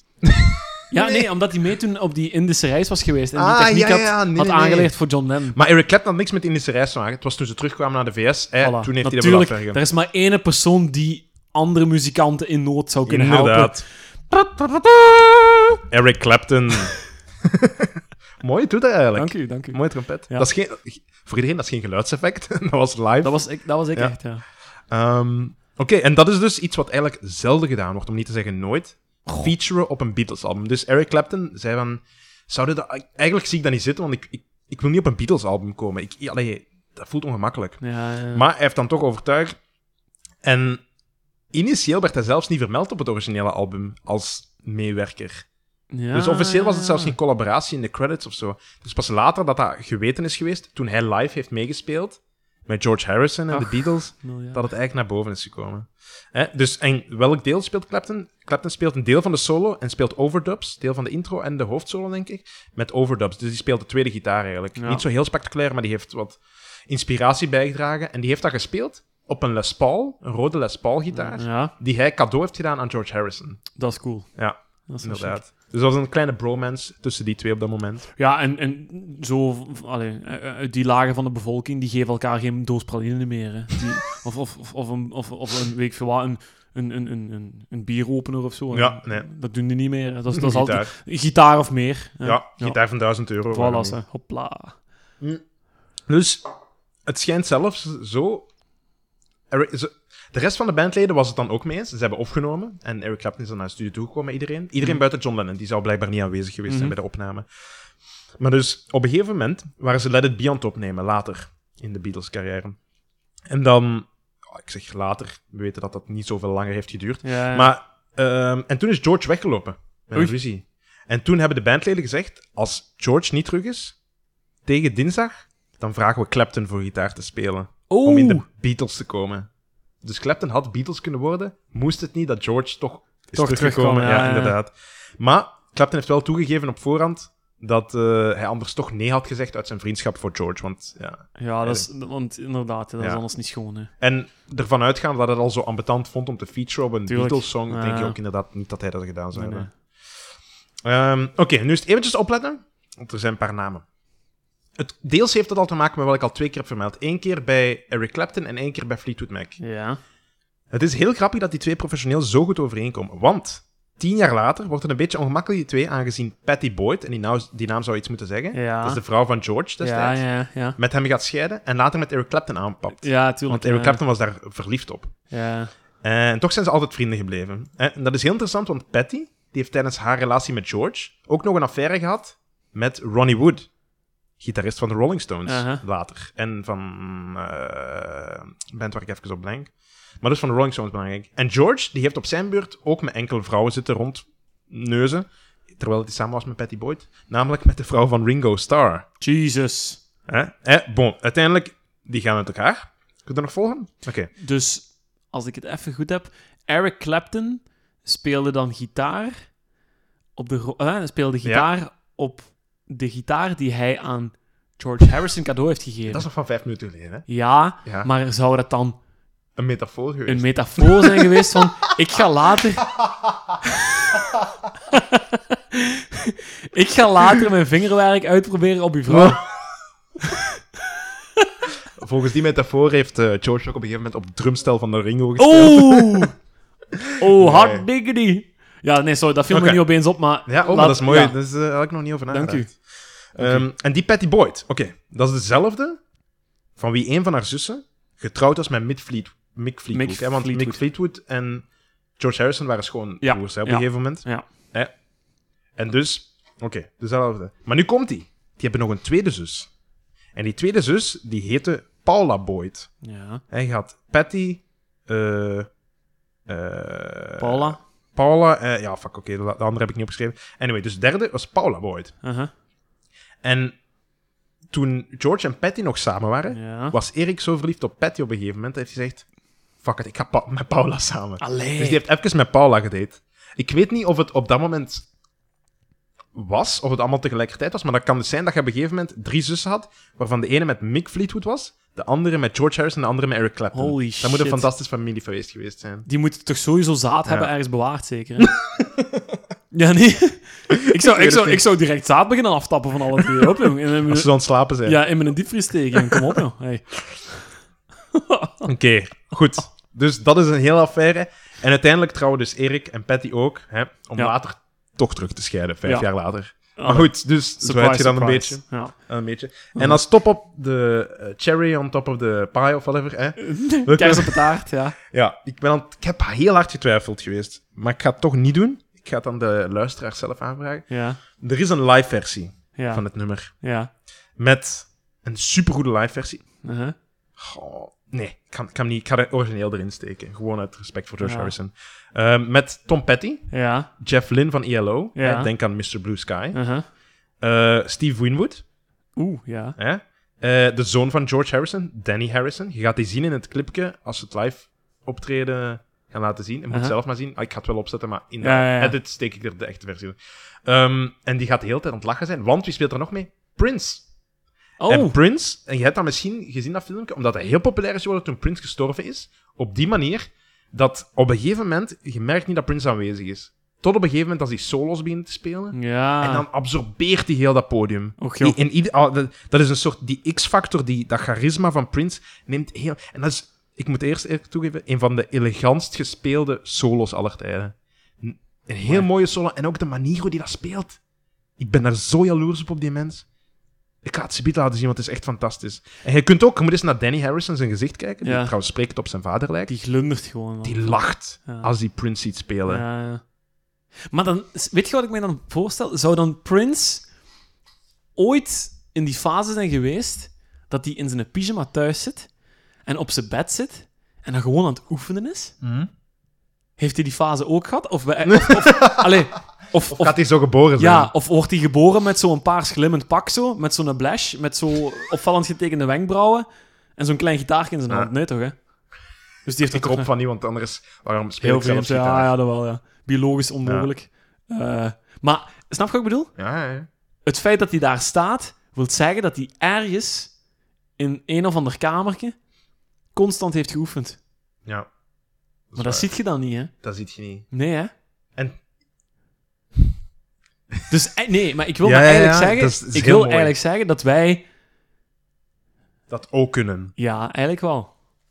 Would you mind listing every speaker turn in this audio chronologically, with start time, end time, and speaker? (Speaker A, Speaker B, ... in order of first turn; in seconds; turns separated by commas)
Speaker A: 0.9-5.6, Speaker B: 3.3-4.9, Speaker B: 5.5-9.8, Speaker A: 8.6-13.8, Speaker B: 13.1-15.1, Speaker B: 15.9-24.1, Speaker A: 19.1-20.5, Speaker A: 23.2-24.4, Speaker B: 24.9-39.6, Speaker A: 29.2-29.5, Speaker A: 37.8-38.5, Speaker B: 40.4-40.8, Speaker B: 41.5-45.5, Speaker A: 45.9-47.1, Speaker B: 46.1-73.6, Speaker A: 53.5-54.7, Speaker A: 64.8-65.0, Speaker A: 71.1-71.7, Speaker A: 73.8-75.4, Speaker B: 74.3-78.1, Speaker A: 78.2-92.8, Speaker B: 88.7-89.2, Speaker B: 90.3-90.9, Speaker B: 92.2-94.0, Speaker A: 93.5-94.8, Speaker B: 96.1-96.4, Speaker B: 97.1-98.5, Speaker B: 99.5-107.5, Speaker A: 106.7-106.9, Speaker B: 108.4-112.8, Speaker B: 113.5-124.0, Speaker A: 117.2-117.7, Speaker B: 124.7-129.5, Speaker A: 127.9-128.4, Speaker B: 130.0-141.9, Speaker A: 133.3-134.6, Speaker A: 141.4-143.9, Speaker B: 144.0-149.7, Speaker A: 147.1-148.2, Speaker A: 149.3-149.7, Speaker B: 150.8-153.8, Speaker B: 154.8-159.6, Speaker A: 159.6-160.0, Speaker B: 160.7-175.1, Speaker A: 168.5-169.0, Speaker A: 169.8-170.8, Speaker A: 173.0-174.0, Speaker A: 175.3-175.7, Speaker B: 176.0-183.7, Speaker B: 184.4-199.1, Speaker A: 185.4-185.8, Speaker A: 199.2-200.0, Speaker B: 200.3-204.3, Speaker A: 204.4-209.5, Speaker A: 210.3-216.3, Speaker B: 216.1-217.2, Speaker A: 217.3-219.0, Speaker B: 217.8-218.1, Speaker B: 219.6-221.6, Speaker A: 220.3-223.0, Speaker A: 223.6-224.2, Speaker A: 224.9-229.4, Speaker B: 229.1-229.4, Speaker A: 230.3-231.4, Speaker B: 231.9-236.3, Speaker A: 235.4-236.4, Speaker A: 237.2-241.4, Speaker B: 237.3-237.9, Speaker B: 239.5-239.8, Speaker B: 240.4-242.8, Speaker A: 242.3-243.7, Speaker B: 243.3-246.0, Speaker B: 246.8-251.7, Speaker A: 249.9-250.8, Speaker B: 252.2-254.9, Speaker A: 253.2-254.4, Speaker B: 255.8-259.7, Speaker B: 260.3-262.9, Speaker A: 263.0-263.4, Speaker B: 263.5-265.7, Speaker B: 266.5-272.1, Speaker A: 267.4-267.8, Speaker A: 272.2-272.5, Speaker B: 273.4-273.8, Speaker B: 274.7-279.2, Speaker A: 276.5-276.9, Speaker B: 279.8-285.1, Speaker A: 281.4-282.0, Speaker B: 286.3-296.1, Speaker A: 293.7-294.7, Speaker A: 296.1-298.6, Speaker B: 297.2-297.5, Speaker B: 298.4-299.2, Speaker A: 299.7-307.6, Speaker B: 300.7-301.6, Speaker B: 304.1-305.0, Speaker A: 308.1-308.7, Speaker B: 308.6-333.5, Speaker A: 316.8-318.9, Speaker A: 319.7-320.0, Speaker A: 323.4-325.0, Speaker A: 330.9-331.2, Speaker A: 332.8-333.9, Speaker B: 334.4-336.5, Speaker A: 336.6-336.9, Speaker B: 337.4-346.6, Speaker A: 341.2-341.5, Speaker A: 343.5-343.9, Speaker A: 345.1-345.5, Speaker A: 346.5-346.9, Speaker B: 347.4-348.6, Speaker A: 349.1-349.8, Speaker B: 349.8-364.1, Speaker A: 358.4-359.0, Speaker A: 364.8-365.1, Speaker B: 364.9-391.0, Speaker A: 375.7-376.4, Speaker A: 378.2-378.6, Speaker B: 391.6-393.3, Speaker B: 394.0-399.7, Speaker A: 398.2-398.6, Speaker A: 399.7-401.7, Speaker B: 400.6-402.8, Speaker A: 402.6-403.2, Speaker A: 404.1-407.1, Speaker A: 408.1-412.3, Speaker A: 412.8-415.5, Speaker B: 415.6-415.9, Speaker A: 416.8-428.7, Speaker B: 418.2-419.0, Speaker B: 419.8-421.1, Speaker A: 429.4-430.1, Speaker B: 429.7-432.3, Speaker A: 431.4-436.4, Speaker B: 433.6-433.9, Speaker B: 436.4-436.9, Speaker A: 437.2-440.3, Speaker A: 441.0-442.3, Speaker A: 443.1-444.2, Speaker B: 445.7-446.1, Speaker A: 445.8-446.7, Speaker B: 446.8-447.5, Speaker A: 447.5-447.9, Speaker B: 448.3-448.6, Speaker A: 450.9-454.5, Speaker B: 451.8-453.5, Speaker B: 456.1-456.9, Speaker A: 457.0-457.9